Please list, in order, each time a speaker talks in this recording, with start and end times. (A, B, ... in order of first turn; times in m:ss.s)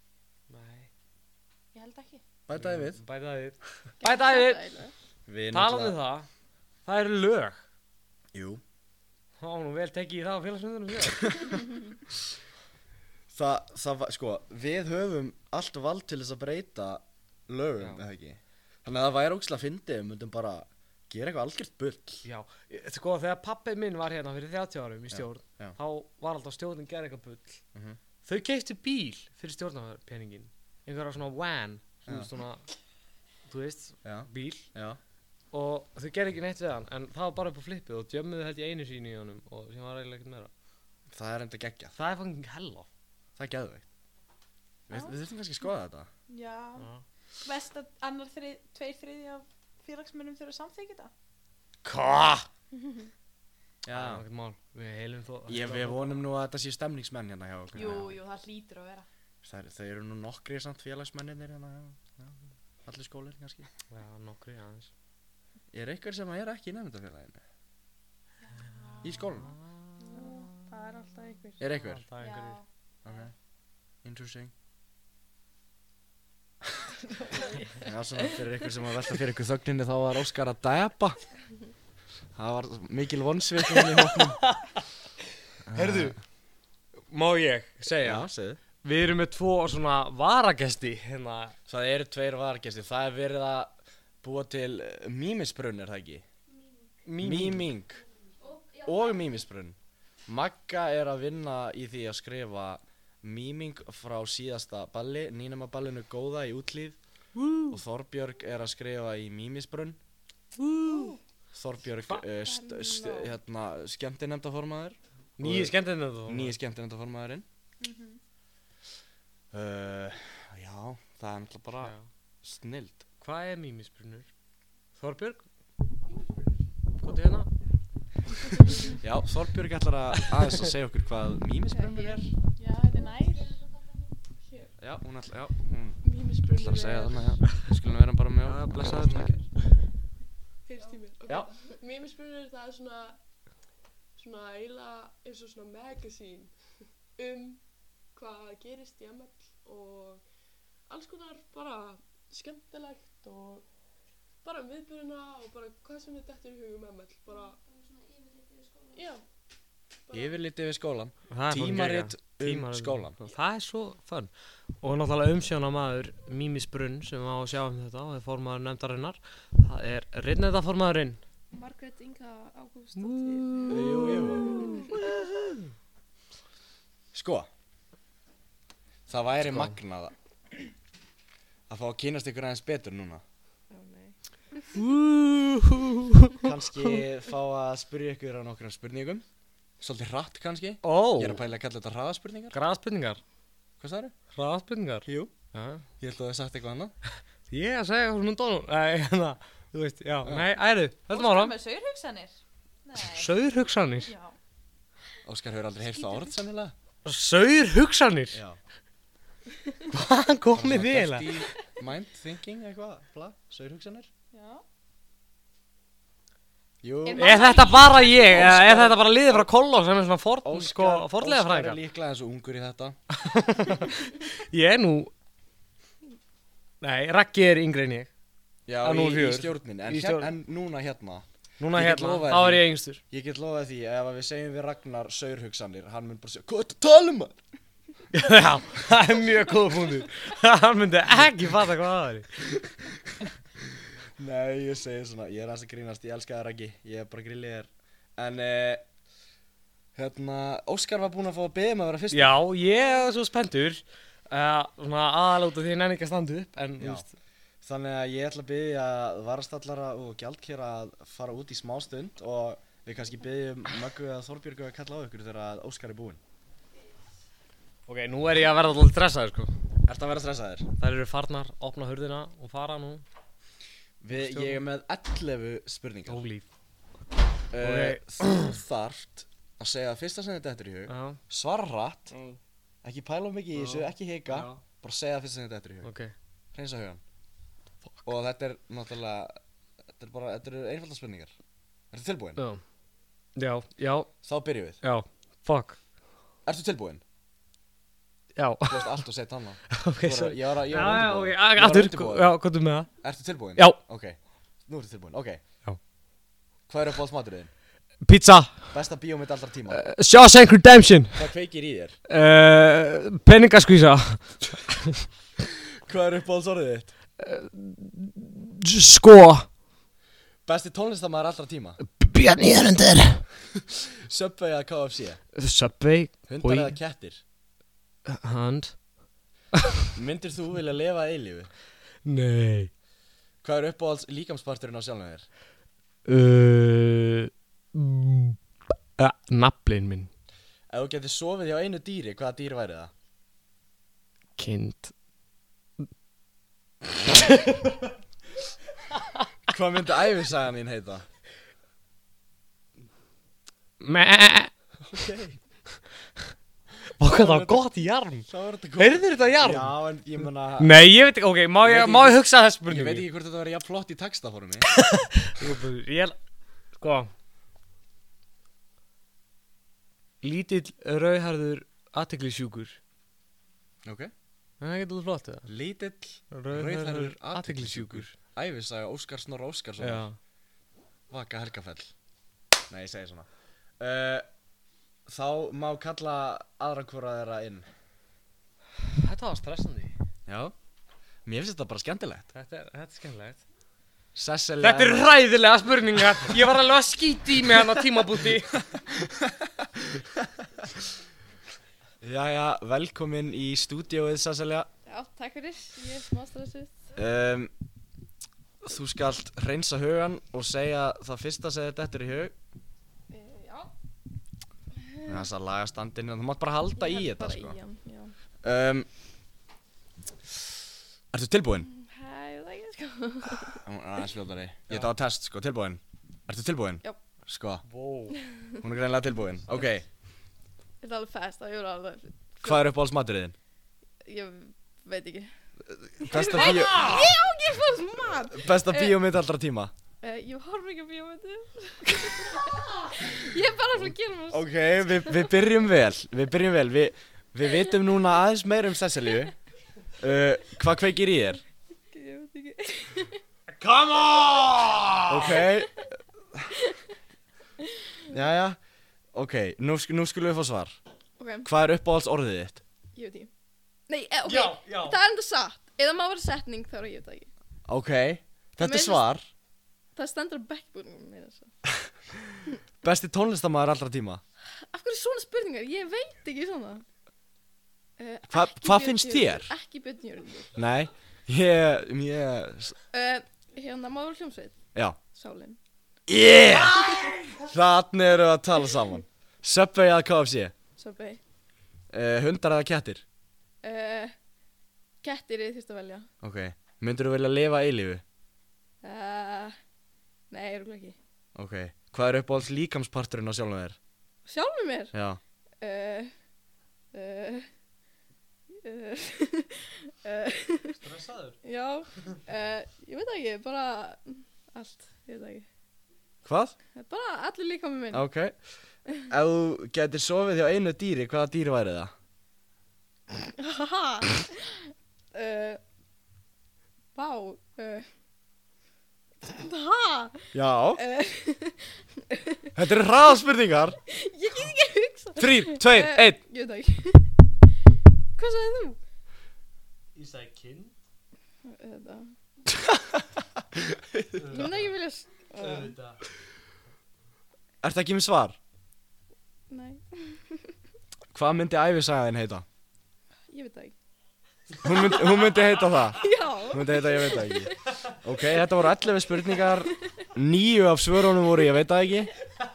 0:00.5-0:00.9 A
0:01.7-0:02.2 B
0:02.5-0:03.0 C
0:02.5-0:04.6 A
0:04.0-0:04.9 D
0:05.3-0:06.0 C
0:05.5-0:06.3 A
0:06.8-0:07.6 A
0:08.3-0:08.6 C
0:09.4-0:11.6 A
0:13.3-0:22.2 C
0:22.2-0:27.6 A
0:25.1-0:25.8 C
0:27.7-0:28.0 C
0:28.2-0:32.6 A
0:33.5-0:34.7 A
0:34.0-0:35.0 C
0:35.5-0:40.5 A
0:41.1-0:42.0 C
0:42.0-0:42.9 A
0:43.4-0:43.8 C
0:44.9-0:46.1 C
0:46.3-0:46.8 D
0:46.3-0:46.7 B
0:46.8-0:47.0 A
0:47.4-0:51.1 B
0:51.8-0:52.5 A
0:52.8-0:53.0 D
0:53.8-0:54.2 C
0:53.9-0:56.2 A
0:55.5-0:58.2 C
0:57.7-0:59.1 B
0:59.4-1:03.7 C
1:03.9-1:04.9 A
1:05.7-1:07.4 C
1:08.5-1:09.1 B
1:09.0-1:09.5 C
1:09.2-1:10.6 A
1:10.0-1:11.6 D
1:10.1-1:11.0 B
1:11.6-1:12.0 C
1:11.7-1:12.6 A
1:12.2-1:12.6 B
1:13.0-1:13.3 C
1:14.0-1:14.5 C
1:17.3-1:17.6 D
1:17.4-1:17.7 B
1:17.8-1:21.2 C
1:22.4-1:24.4 C
1:23.7-1:24.8 A
1:25.7-1:26.2 C
1:25.7-1:26.2 A
1:27.1-1:28.3 A
1:28.0-1:28.6 C
1:28.8-1:31.6 A
1:31.7-1:36.2 C
1:37.0-1:37.7 A
1:37.2-1:38.0 C
1:38.7-1:39.8 C
1:40.3-1:47.0 C
1:47.3-1:47.8 A
1:47.7-1:50.0 C
1:50.6-1:51.1 A
1:51.5-1:57.4 C
1:52.5-1:53.3 D
1:55.4-1:56.6 A
1:57.8-1:58.1 D
1:59.5-2:03.0 C
2:01.8-2:02.0 A
2:03.2-2:04.3 A
2:05.0-2:05.4 A
2:07.0-2:07.5 A
2:09.0-2:12.3 C
2:10.2-2:10.7 A
2:11.8-2:12.2 D
2:12.6-2:13.6 B
2:14.8-2:19.4 C
2:16.0-2:17.4 E
2:18.4-2:19.4 A
2:20.6-2:23.2 E
2:24.2-2:26.5 E
2:27.2-2:27.6 E
2:28.1-2:30.2 E
2:30.9-2:33.6 E
2:34.4-2:37.6 E
2:38.9-2:39.2 E
2:40.1-2:40.4 E
2:40.1-2:43.2 C
2:41.3-2:51.2 A
2:51.5-2:54.9 D
2:53.0-2:55.7 A
2:53.7-2:54.7 C
2:57.1-2:57.5 C
2:59.1-3:00.1 C
2:59.4-2:59.8 A
3:01.7-3:03.2 C
3:03.7-3:04.1 D
3:04.7-3:07.0 A
3:06.4-3:09.2 C
3:09.8-3:12.6 C
3:10.8-3:11.4 A
3:12.5-3:13.2 A
3:13.8-3:14.1 C
3:14.3-3:15.8 A
3:15.0-3:15.3 C
3:16.0-3:16.9 C
3:17.5-3:21.5 A
3:21.1-3:23.3 B
3:23.1-3:24.1 A
3:24.0-3:24.4 B
3:25.2-3:26.7 C
3:26.0-3:26.3 B
3:27.0-3:28.4 A
3:28.3-3:28.6 C
3:29.9-3:31.4 A
3:30.5-3:34.1 C
3:34.3-3:34.6 B
3:36.8-3:37.3 C
3:37.1-3:38.4 B
3:37.2-3:41.8 A
3:37.4-3:38.1 D
3:38.3-3:39.4 C
3:40.4-3:43.0 C
3:43.1-3:45.1 A
3:46.8-3:48.1 A
3:48.7-3:57.4 C
3:48.8-3:50.3 A
3:51.6-3:53.0 A
3:58.1-4:02.3 A
4:04.2-4:08.8 C
4:10.0-4:12.4 C
4:12.1-4:17.1 A
4:16.8-4:17.1 C
4:17.6-4:26.2 C
4:27.9-4:29.6 A
4:29.8-4:30.7 C
4:30.8-4:33.0 A
4:34.0-4:36.2 C
4:34.1-4:34.6 A
4:36.1-4:36.5 A
4:37.5-4:42.2 C
4:37.6-4:38.6 A
4:40.9-4:41.2 A
4:42.8-4:45.9 C
4:43.5-4:44.6 A
4:45.8-4:46.1 A
4:46.5-4:47.0 C
4:48.0-4:49.4 C
4:50.0-4:51.3 C
4:51.9-4:52.4 C
4:52.4-4:52.6 A
4:53.4-4:54.1 A
4:54.2-4:54.8 C
4:54.8-4:55.8 A
4:56.4-4:57.0 C
4:58.3-4:59.0 A
4:58.6-5:02.4 C
4:59.7-5:02.9 A
5:03.0-5:05.4 C
5:06.7-5:07.5 C
5:08.0-5:08.7 A
5:08.7-5:09.8 C
5:09.7-5:11.2 A
5:11.1-5:12.0 C
5:12.1-5:15.1 A
5:15.8-5:16.9 C
5:17.2-5:19.5 A
5:20.4-5:21.8 C
5:21.9-5:23.2 A
5:24.1-5:25.2 C
5:25.3-5:26.8 A
5:26.3-5:27.2 C
5:28.0-5:28.8 A
5:29.9-5:31.5 C
5:32.0-5:32.7 A
5:33.4-5:35.3 C
5:36.0-5:38.4 A
5:39.0-5:40.1 A
5:40.7-5:42.9 C
5:44.4-5:44.9 A
5:47.1-5:47.8 A
5:48.9-5:49.3 A
5:49.5-5:51.0 C
5:53.8-5:54.5 A
5:54.9-5:55.4 C
5:57.0-5:59.7 A
5:57.0-5:57.7 C
5:58.3-6:00.7 C
6:00.6-6:03.0 A
6:01.6-6:04.7 C
6:04.7-6:06.2 A
6:06.7-6:07.1 A
6:10.2-6:12.8 A
6:13.8-6:14.1 C
6:14.6-6:15.5 A
6:15.5-6:20.1 C
6:16.3-6:18.1 A
6:19.8-6:20.2 A
6:21.1-6:21.9 C
6:22.7-6:23.3 C
6:23.8-6:24.3 C
6:25.0-6:27.7 C
6:28.8-6:29.9 A
6:30.3-6:30.5 C
6:31.2-6:32.3 C
6:32.3-6:33.4 A
6:34.1-6:35.1 C
6:34.6-6:38.6 A
6:39.2-6:40.2 C
6:42.0-6:44.7 C
6:44.8-6:46.8 D
6:46.9-6:47.5 C
6:48.6-6:52.3 C
6:53.1-6:53.7 D
6:55.0-6:57.6 C
6:56.8-6:58.1 D
6:58.4-6:58.9 C
7:01.1-7:01.7 C
7:01.7-7:03.6 D
7:03.5-7:07.6 C
7:07.6-7:08.2 A
7:08.6-7:09.9 C
7:10.8-7:12.6 D
7:12.4-7:13.3 C
7:14.0-7:15.3 D
7:15.7-7:16.9 C
7:16.0-7:19.0 D
7:16.2-7:17.1 A
7:18.3-7:19.7 C
7:20.0-7:25.3 D
7:24.3-7:29.3 C
7:30.0-7:31.4 C
7:31.9-7:33.2 D
7:33.5-7:35.4 A
7:35.1-7:36.5 C
7:38.1-7:38.6 C
7:39.1-7:40.8 C
7:41.2-7:41.5 D
7:41.4-7:42.6 C
7:42.9-7:43.3 D
7:43.9-7:47.3 D
7:44.2-7:45.0 A
7:47.7-7:49.2 C
7:48.6-7:49.1 D
7:49.9-7:51.5 D
7:52.8-7:54.2 C
7:54.6-7:56.8 D
7:58.0-8:00.5 D
7:58.3-7:59.5 C
8:00.5-8:02.8 C
8:02.9-8:05.6 D
8:06.1-8:06.9 C
8:06.5-8:07.5 A
8:06.8-8:07.1 D
8:07.4-8:10.5 C
8:10.8-8:11.2 D
8:11.9-8:13.0 C
8:13.6-8:14.1 D
8:15.0-8:16.1 D
8:16.2-8:18.0 C
8:18.8-8:19.6 D
8:20.3-8:21.0 D
8:21.3-8:23.8 C
8:24.2-8:24.9 D
8:24.9-8:25.2 C
8:25.6-8:26.1 D
8:26.9-8:27.5 D
8:28.5-8:30.8 D
8:30.7-8:31.4 A
8:31.4-8:35.4 D
8:36.2-8:36.6 C
8:36.7-8:38.0 D
8:37.9-8:38.4 C
8:38.9-8:41.9 C
8:43.3-8:45.6 D
8:46.9-8:47.9 D
8:49.2-8:52.5 D
8:50.3-8:50.8 C
8:52.5-8:53.8 C
8:53.9-8:57.1 D
8:55.2-8:56.2 C
8:58.2-8:58.8 D
8:59.9-9:00.7 A
9:01.4-9:02.1 D
9:02.5-9:04.2 C
9:04.2-9:04.7 A
9:04.3-9:05.8 D
9:05.4-9:06.0 A
9:07.6-9:08.4 C
9:09.5-9:10.5 D
9:11.1-9:12.4 C
9:13.3-9:13.7 D
9:14.6-9:22.1 C
9:14.7-9:15.2 D
9:15.9-9:17.6 D
9:19.4-9:20.0 D